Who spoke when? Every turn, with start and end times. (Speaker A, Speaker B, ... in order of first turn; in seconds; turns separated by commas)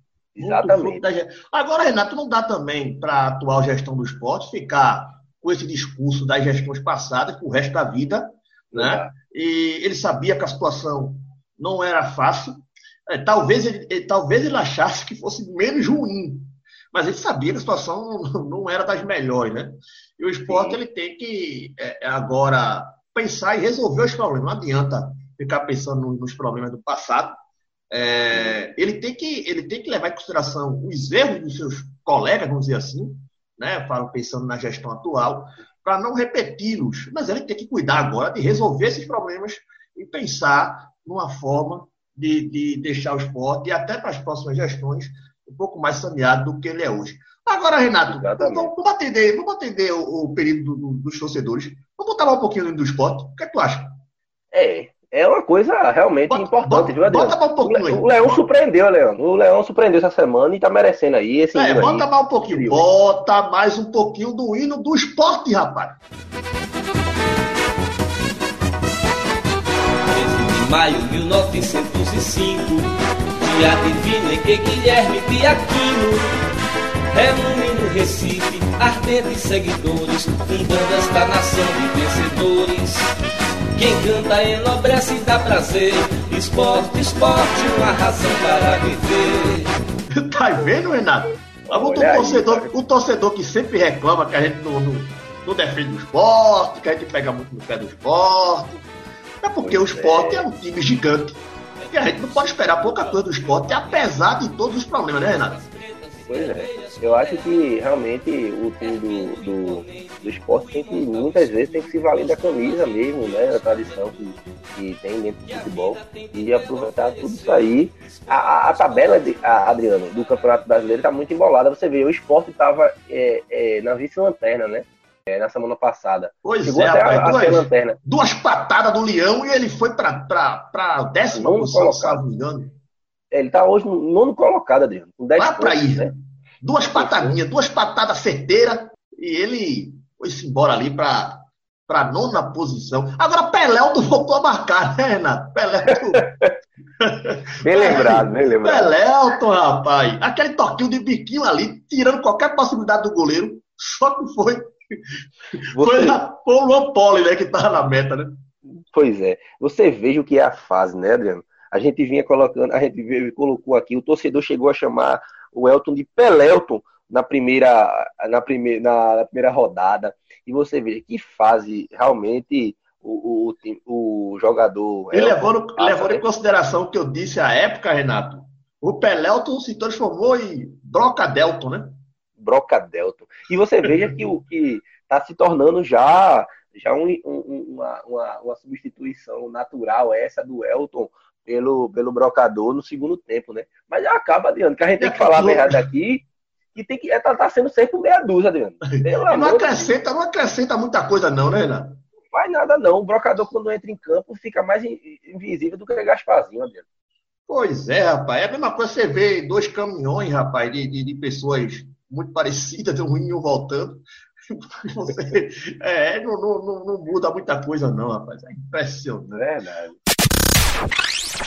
Speaker A: 0.4-1.0, Speaker B: 0.4-27.4, Speaker A: 8.7-9.1, Speaker A: 20.5-20.8, Speaker B: 27.9-53.9, Speaker A: 48.1-48.7, Speaker A: 54.5-62.9, Speaker B: 56.3-58.5, Speaker B: 61.5-66.0, Speaker C: 70.1-76.3, Speaker C: 77.1-83.1, Speaker C: 83.8-89.7, Speaker B: 90.2-98.8, Speaker A: 91.7-92.7, Speaker B: 99.4-101.4, Speaker A: 99.6-100.5, Speaker C: 101.8-107.8, Speaker B: 101.9-105.6, Speaker A: 106.3-128.0, Speaker C: 108.8-121.0, Speaker B: 126.4-132.7, Speaker A: 131.3-132.2, Speaker A: 133.3-136.1, Speaker B: 135.4-146.3, Speaker A: 136.9-137.4, Speaker A: 146.2-146.5, Speaker B: 147.0-154.7, Speaker A: 147.6-148.9, Speaker B: 155.5-158.4, Speaker A: 155.7-156.2, Speaker A: 158.9-176.2, Speaker B: 175.1-181.9, Speaker A: 182.4-196.2, Speaker B: 195.0-195.8, Speaker A: 196.8-199.9, Speaker B: 198.9-202.0, Speaker A: 202.3-206.8, Speaker B: 207.5-219.4, Speaker A: 219.4-220.0